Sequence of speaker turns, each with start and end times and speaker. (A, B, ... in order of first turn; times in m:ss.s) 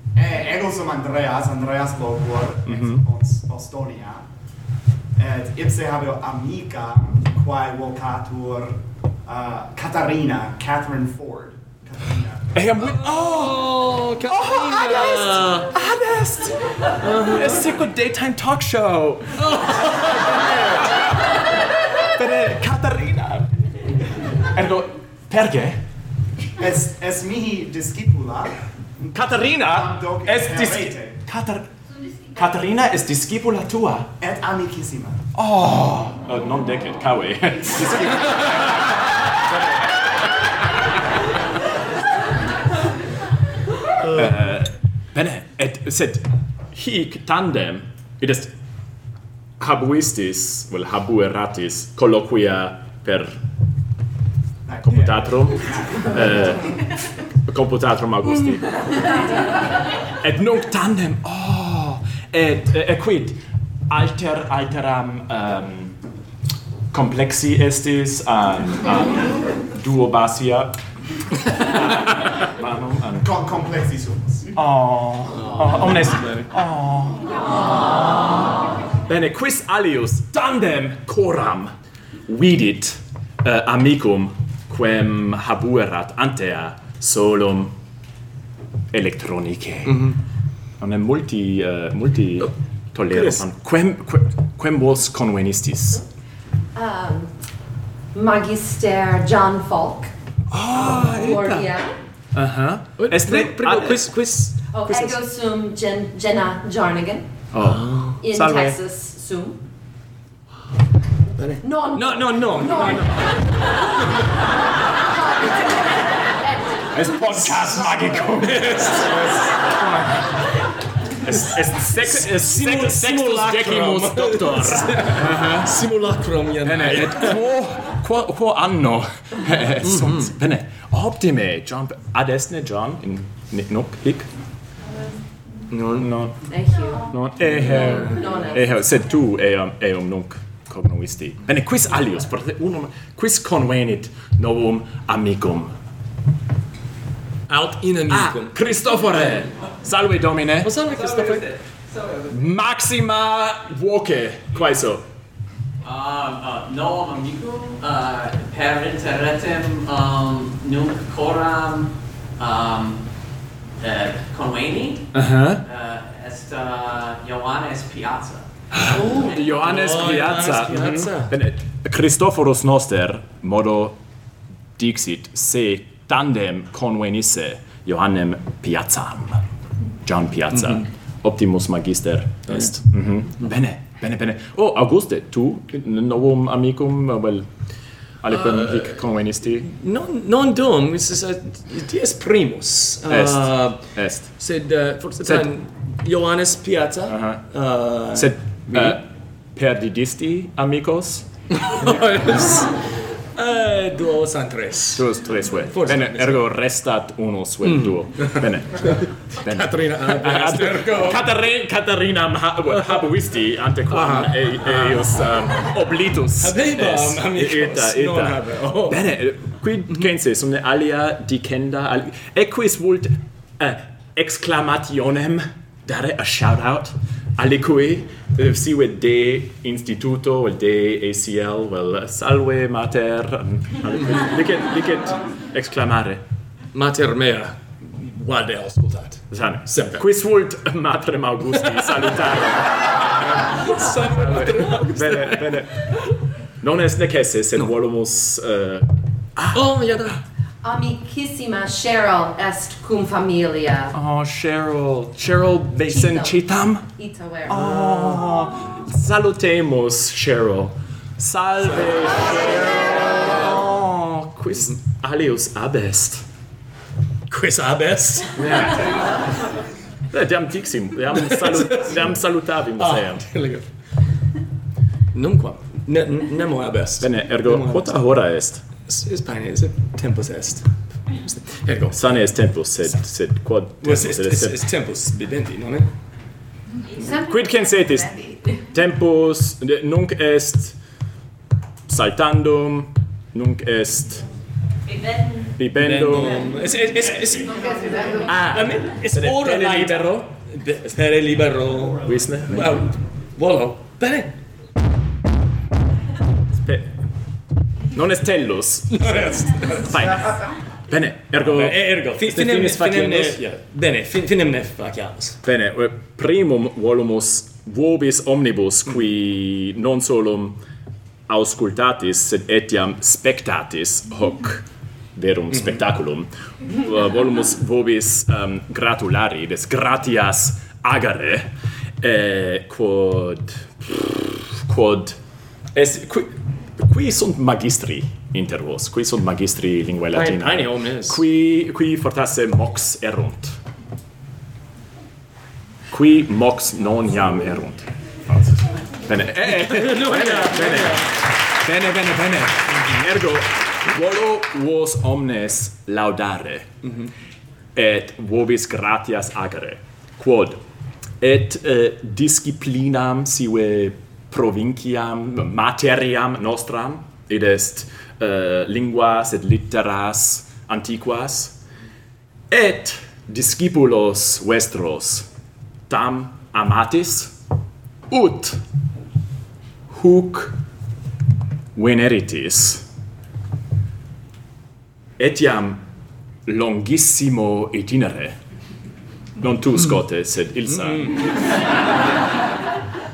0:00.1-0:04.2 A
0:02.7-0:03.0 B
0:05.2-0:12.5 A
0:12.5-0:13.7 B
0:12.8-0:15.7 C
0:14.2-0:16.6 B
0:17.0-0:17.6 C
0:17.2-0:21.0 B
0:19.4-0:20.7 C
0:22.0-0:23.6 B
0:24.4-0:25.8 B
0:26.6-0:31.2 A
0:29.1-0:31.7 B
0:32.3-0:34.1 B
0:34.2-0:35.2 A
0:35.3-0:39.1 B
0:44.0-0:48.5 B
0:49.6-0:53.4 B
0:54.7-0:56.2 A
0:54.8-0:56.7 B
0:57.4-0:59.2 B
1:00.2-1:06.0 B
1:06.9-1:10.8 B
1:11.4-1:13.3 B
1:13.2-1:14.5 A
1:14.5-1:17.3 B
1:19.1-1:21.7 B
1:22.3-1:27.7 B
1:28.9-1:30.1 B
1:29.8-1:30.2 C
1:30.8-1:36.0 B
1:33.1-1:33.4 C
1:36.7-1:37.3 D
1:38.1-1:40.1 D
1:40.5-1:41.6 B
1:40.8-1:41.9 D
1:40.8-1:41.3 C
1:42.3-1:44.1 B
1:43.0-1:45.2 C
1:44.7-1:47.3 D
1:47.5-1:48.8 B
1:47.6-1:48.2 C
1:48.2-1:49.6 D
1:51.4-1:53.1 C
1:51.6-1:53.2 D
1:55.1-1:57.9 D
1:56.9-1:59.4 B
1:58.4-2:00.1 C
2:01.2-2:05.7 B
2:02.0-2:07.4 C
2:06.6-2:14.3 B
2:09.8-2:10.3 C
2:15.7-2:16.1 C
2:15.9-2:16.4 B
2:16.5-2:18.7 D
2:17.1-2:25.7 B
2:17.5-2:18.2 C
2:27.5-2:28.6 C
2:28.1-2:30.7 B
2:30.6-2:31.5 C
2:30.9-2:32.4 E
2:32.3-2:35.0 B
2:35.8-2:43.1 E
2:43.8-2:45.1 E
2:45.1-2:45.6 B
2:45.6-2:48.5 E
2:48.7-2:54.0 B
2:48.9-2:51.3 C
2:49.2-2:49.6 E
2:54.8-2:59.4 B
3:00.0-3:07.5 B
3:08.2-3:09.7 B
3:08.4-3:08.8 C
3:09.6-3:13.8 C
3:13.1-3:14.3 B
3:14.4-3:19.0 C
3:17.1-3:17.4 B
3:18.1-3:21.3 B
3:21.5-3:22.7 C
3:23.3-3:25.1 C
3:24.9-3:56.2 B
3:25.7-3:26.5 C
3:27.6-3:31.3 C
3:33.9-3:35.0 C
3:36.4-3:39.0 C
3:56.7-4:00.0 C
3:59.3-4:05.9 B
4:03.2-4:05.6 C
4:06.6-4:09.7 B
4:09.5-4:10.2 C
4:10.6-4:13.9 D
4:13.9-4:16.9 B
4:15.9-4:16.4 D
4:16.9-4:18.1 D
4:17.5-4:26.2 B
4:27.3-4:28.4 C
4:28.4-4:29.1 B
4:30.1-4:33.3 B
4:31.3-4:32.0 C
4:32.8-4:33.6 C
4:35.1-4:38.0 C
4:37.0-4:38.6 B
4:38.8-4:42.0 C
4:41.9-4:44.6 B
4:43.8-4:45.9 C
4:46.9-4:48.6 D
4:47.1-4:50.8 B
4:51.9-4:54.2 B
4:55.6-4:56.5 B
4:55.7-5:04.3 C
4:57.8-4:58.2 D
4:58.2-5:00.3 B
5:02.0-5:02.8 B
5:06.5-5:06.9 B
5:07.9-5:13.4 B
5:08.9-5:10.0 C
5:11.4-5:15.4 C
5:15.4-5:20.6 B
5:21.3-5:31.5 B
5:32.0-5:35.2 B
5:35.7-5:43.6 B
5:40.1-5:41.2 C
5:45.9-5:56.7 B
5:49.5-5:51.1 C
5:57.7-6:00.6 B
6:01.2-6:11.6 B
6:12.5-6:15.3 B
6:15.9-6:17.3 B
6:18.1-6:18.6 B
6:19.9-6:20.6 B
6:21.8-6:22.8 B
6:25.2-6:25.8 B
6:26.4-6:28.4 B
6:29.4-6:31.3 B
6:30.8-6:31.3 C